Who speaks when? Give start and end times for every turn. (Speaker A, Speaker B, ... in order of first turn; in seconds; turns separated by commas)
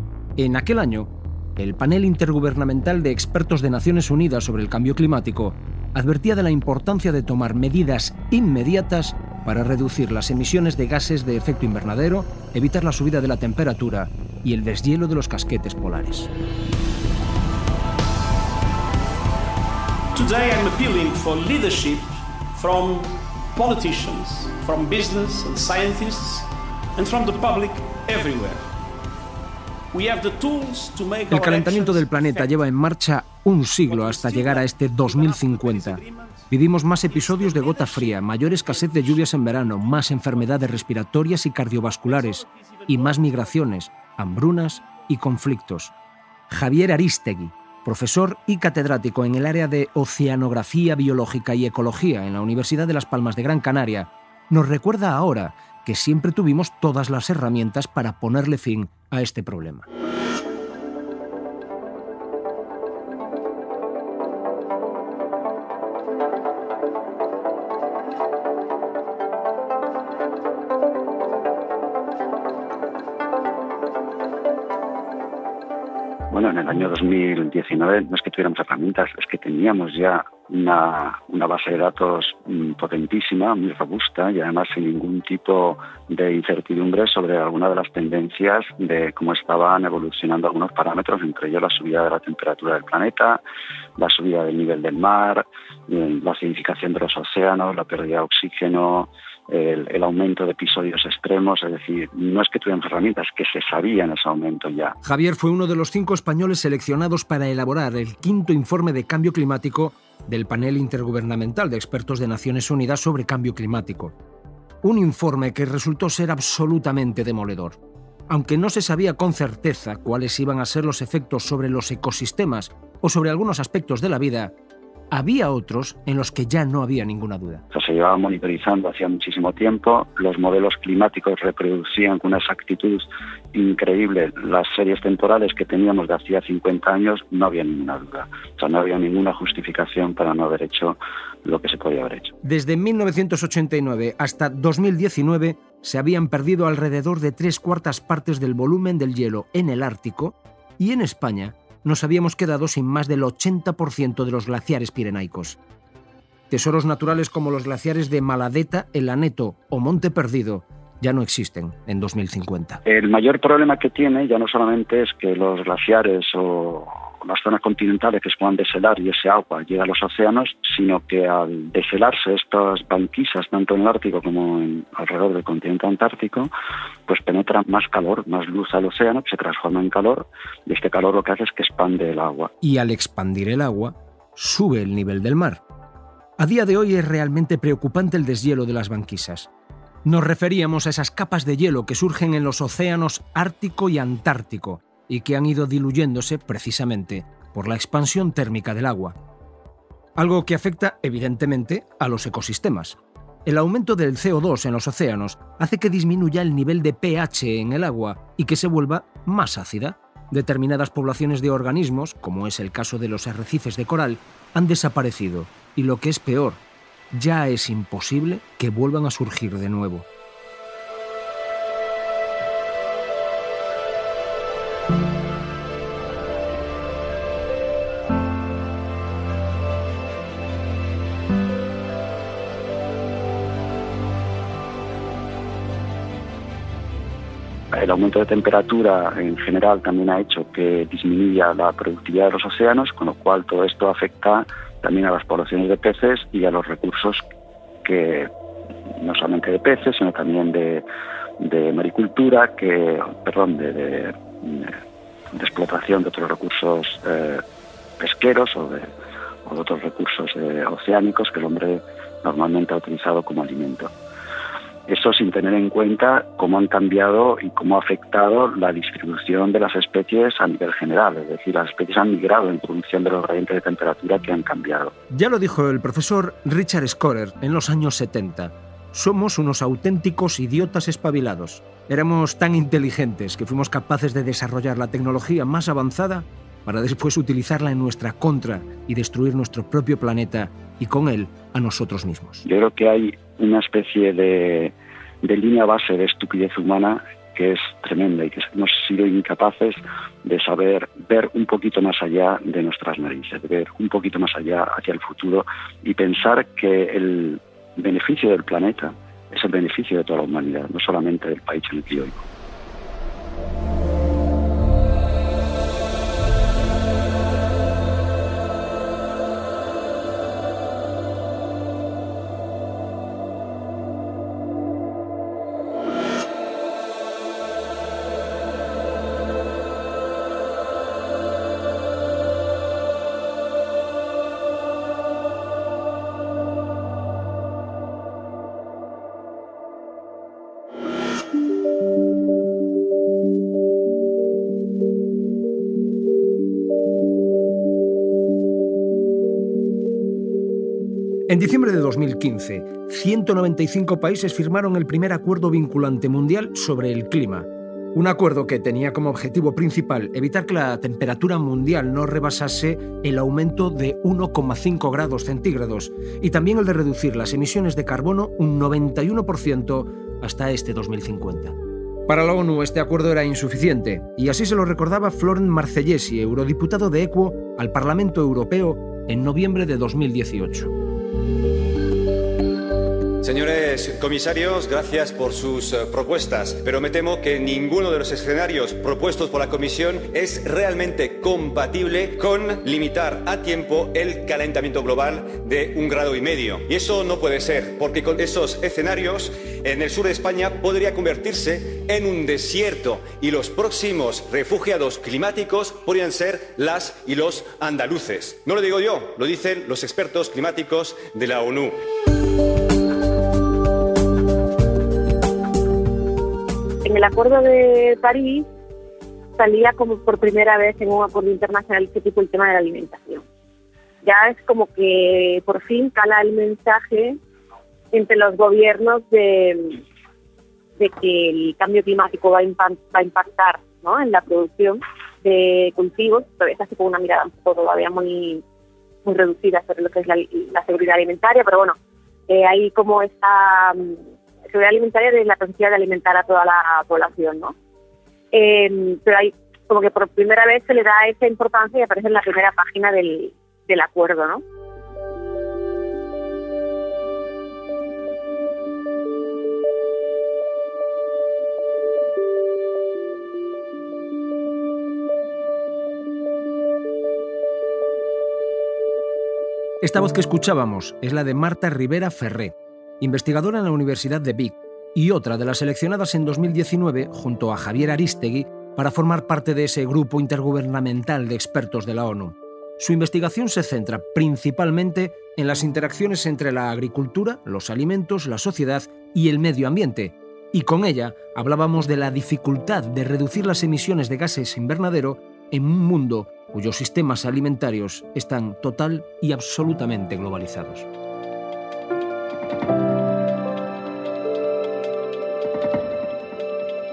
Speaker A: 0.4-16.3, Speaker B: 20.1-28.6, Speaker B: 29.9-32.6, Speaker A: 31.3-45.9, Speaker B: 33.8-36.4, Speaker B: 37.1-38.2, Speaker B: 42.4-42.8, Speaker A: 46.5-59.9, Speaker C: 76.3-93.4, Speaker C: 94.0-105.0, Speaker A: 105.0-114.2, Speaker A: 114.8-124.5, Speaker A: 125.1-127.6, Speaker C: 127.7-142.3, Speaker A: 142.4-155.6, Speaker A: 156.5-162.8, Speaker C: 162.8-176.5, Speaker C: 177.1-182.5, Speaker A: 182.6-185.6, Speaker A: 186.4-189.5, Speaker A: 190.0-199.2, Speaker A: 200.2-216.6, Speaker A: 217.1-220.1, Speaker C: 237.7-247.2, Speaker C: 247.8-248.3, Speaker C: 249.0-250.8, Speaker C: 251.4-254.7, Speaker C: 255.3-257.4, Speaker C: 258.0-258.9, Speaker C: 259.4-263.9, Speaker C: 264.9-274.9, Speaker A: 275.1-292.4, Speaker C: 292.4-312.2, Speaker A: 351.3-371.6, Speaker A: 372.1-380.7, Speaker D: 383.2-411.8, Speaker E: 416.8-418.4, Speaker E: 419.4-423.2, Speaker E: 424.0-427.2, Speaker E: 427.9-429.8, Speaker E: 430.8-438.4, Speaker E: 439.0-441.7, Speaker E: 442.3-447.5, Speaker E: 448.3-454.4, Speaker A: 469.8-500.9